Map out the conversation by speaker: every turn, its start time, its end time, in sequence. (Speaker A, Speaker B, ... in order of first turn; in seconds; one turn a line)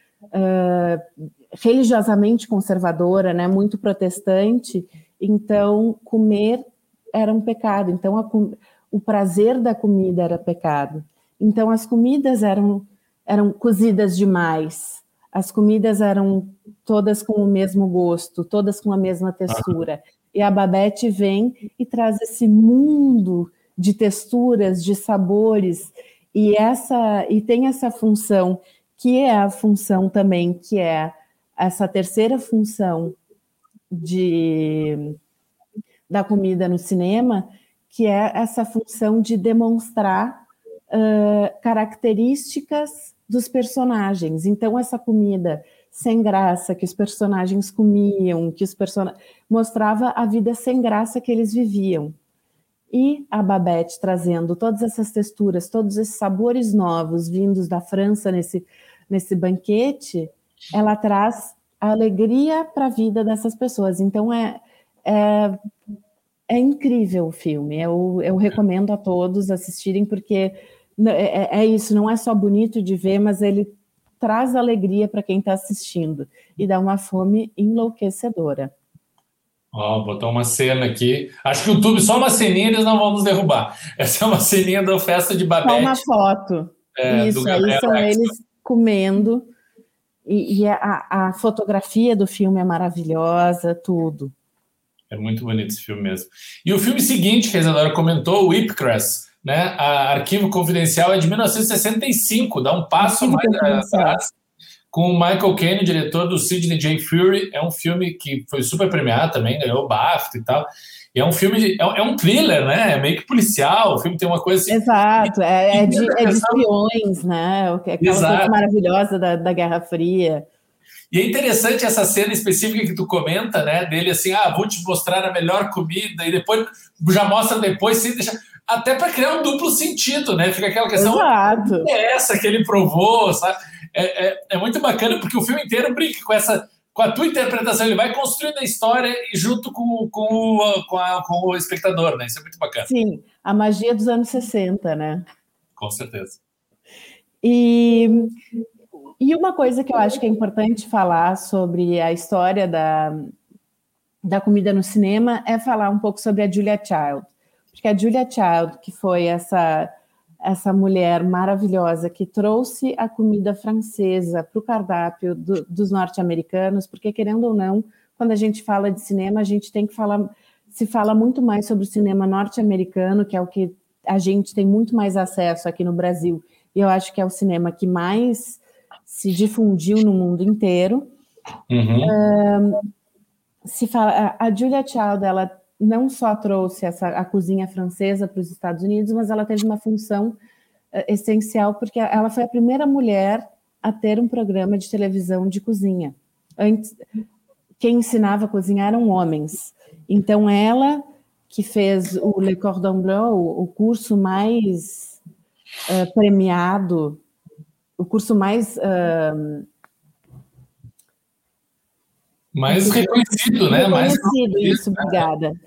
Speaker A: 0.3-33.2
Speaker B: 19.5-19.7
Speaker A: 33.9-35.2
Speaker A: 36.1-52.1
Speaker A: 52.9-65.6
Speaker A: 66.5-78.7
Speaker B: 79.7-86.0
Speaker A: 85.6-89.5
Speaker B: 87.0-88.3
Speaker A: 90.3-94.3
Speaker B: 95.1-104.3
Speaker A: 103.0-104.2
Speaker B: 104.9-116.6
Speaker A: 114.7-120.5
Speaker B: 118.0-118.5
Speaker B: 121.1-142.9
Speaker A: 131.0-131.9
Speaker A: 142.8-145.2
Speaker B: 145.8-146.4
Speaker A: 147.4-148.3
Speaker A: 149.2-153.3
Speaker A: 154.2-159.9
Speaker A: 160.4-181.1
Speaker B: 181.7-182.1
Speaker A: 182.0-182.8
Speaker A: 183.7-190.4
Speaker A: 190.9-196.9
Speaker A: 197.8-205.2
Speaker A: 205.9-207.2
Speaker A: 208.0-209.7
Speaker B: 212.5-215.2
Speaker A: 212.7-215.5